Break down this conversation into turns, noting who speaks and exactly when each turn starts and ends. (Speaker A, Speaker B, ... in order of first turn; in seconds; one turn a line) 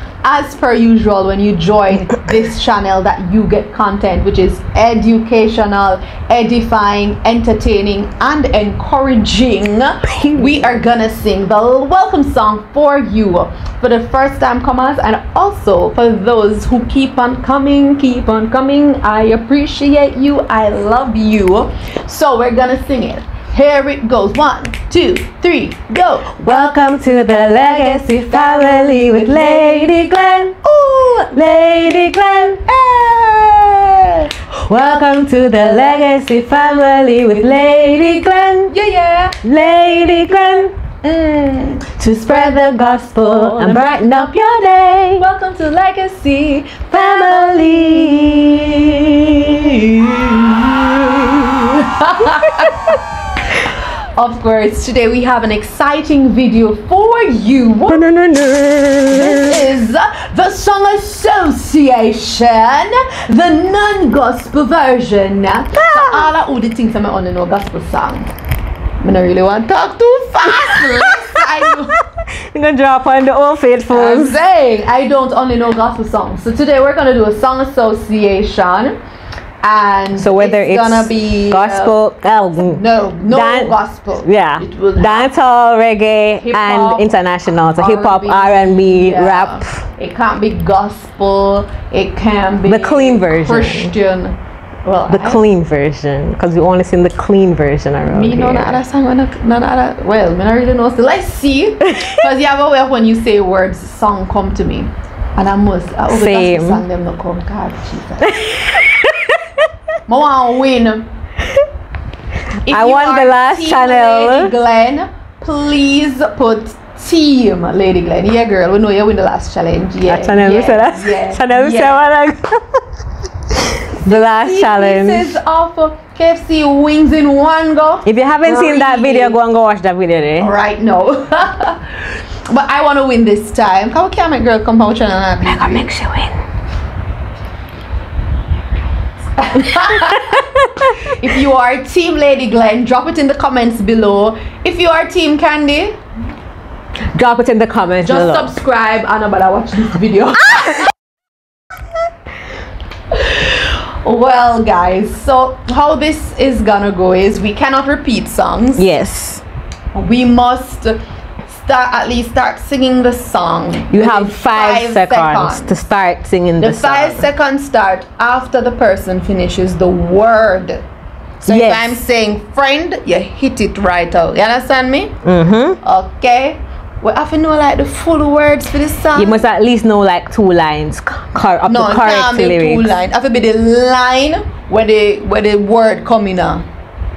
Speaker A: 0.2-36.2
Speaker B: 10.1-10.7
Speaker B: 26.4-30.6
Speaker B: 31.3-32.6
Speaker B: 34.7-38.7
Speaker A: 36.7-39.4
Speaker B: 39.4-40.8
Speaker A: 41.0-44.4
Speaker B: 42.0-45.3
Speaker A: 45.2-58.0
Speaker B: 46.9-50.1
Speaker B: 51.0-51.4
Speaker B: 52.2-53.0
Speaker B: 57.9-59.7
Speaker A: 59.1-68.3
Speaker B: 65.8-66.3
Speaker A: 69.0-72.0
Speaker B: 70.5-71.7
Speaker B: 72.3-74.4
Speaker A: 73.9-79.0
Speaker A: 79.6-82.0
Speaker B: 80.2-89.8
Speaker A: 82.6-85.3
Speaker A: 86.4-95.5
Speaker B: 92.7-93.9
Speaker B: 95.1-98.8
Speaker A: 98.0-108.5
Speaker B: 106.1-106.8
Speaker B: 108.3-109.6
Speaker A: 110.1-111.1
Speaker A: 112.7-122.0
Speaker B: 112.7-114.5
Speaker B: 120.0-122.8
Speaker B: 123.5-125.4
Speaker A: 124.0-129.4
Speaker B: 128.1-130.5
Speaker A: 130.4-135.9
Speaker B: 135.4-136.4
Speaker A: 139.4-146.0
Speaker B: 139.7-141.2
Speaker B: 147.1-148.5
Speaker A: 148.0-150.9
Speaker A: 153.1-158.9
Speaker B: 158.8-159.4
Speaker A: 159.9-165.8
Speaker B: 163.9-167.3
Speaker A: 166.6-170.8
Speaker A: 171.4-175.2
Speaker B: 171.4-172.0
Speaker B: 175.2-175.8
Speaker A: 175.8-179.4
Speaker B: 179.2-183.0
Speaker A: 181.7-186.7